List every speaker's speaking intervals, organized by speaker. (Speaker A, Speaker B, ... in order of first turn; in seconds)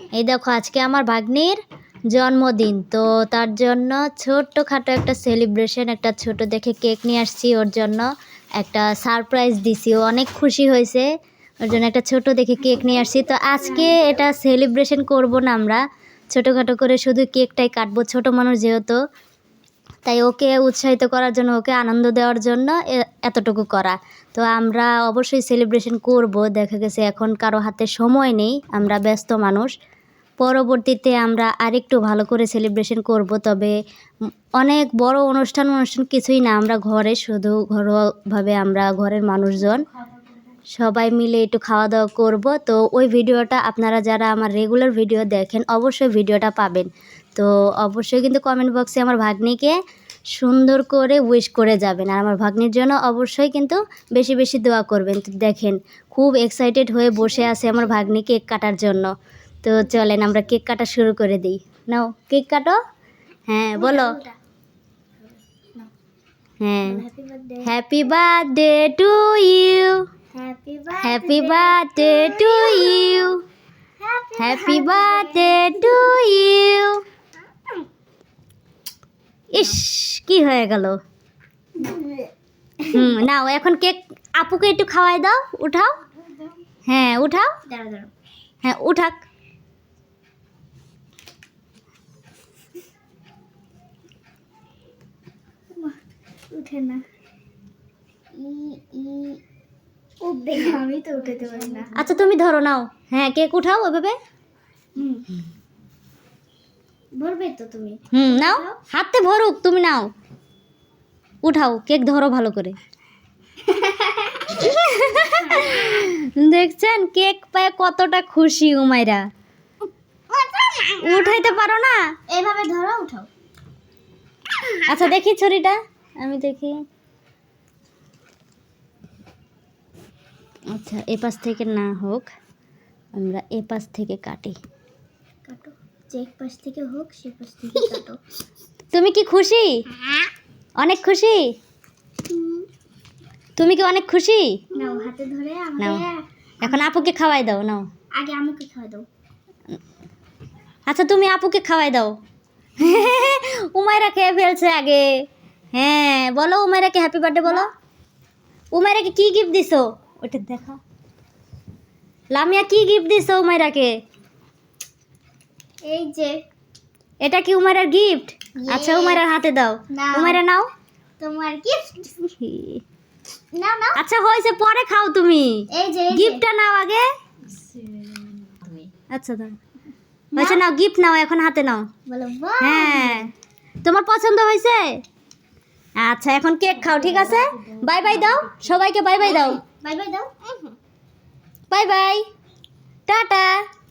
Speaker A: 0.2-1.6, 2.1-8.1, 8.6-11.1, 11.7-15.8, 16.3-19.0, 20.0-29.7, 30.4-33.7, 34.6-39.9, 40.8-49.8, 50.4-59.1, 59.6-62.8, 63.5-64.2, 66.6-67.0, 67.6-70.0, 71.0-73.4, 74.4-77.0, 79.5-81.0, 82.8-86.0, 86.9-87.5, 88.6-89.2, 101.9-104.2, 108.1-110.1, 111.4-112.8, 114.5-119.2, 120.9-122.0, 124.8-126.8, 130.7-132.3, 133.1-134.6, 138.9-139.8, 140.8-141.5, 143.6-144.6, 146.6-147.9, 150.9-152.2, 152.8-157.7, 158.7-160.8, 162.3-164.0, 167.2-170.7, 172.4-172.8, 173.9-177.1, 179.1-179.5, 180.3-181.9, 182.6-183.3, 183.8-185.0, 186.0-189.6, 191.7-192.2, 193.1-193.6
Speaker B: 57.4-57.7, 63.8-64.3, 66.8-67.7, 70.3-73.2, 74.0-76.1, 81.8-82.3, 82.8-83.1, 87.7-88.1, 96.5-97.0, 98.3-99.4, 100.2-101.9, 105.0-105.3, 107.2-108.8, 113.6-114.6, 115.3-116.0, 120.3-121.3, 122.3-123.3, 135.4-138.2, 142.3-142.7, 144.7-146.9, 148.1-149.1, 165.8-166.4, 168.6-169.2, 169.9-170.4, 171.2-172.3, 173.5-174.0, 175.7-176.4, 180.3-180.6, 182.1-183.3, 189.2-190.7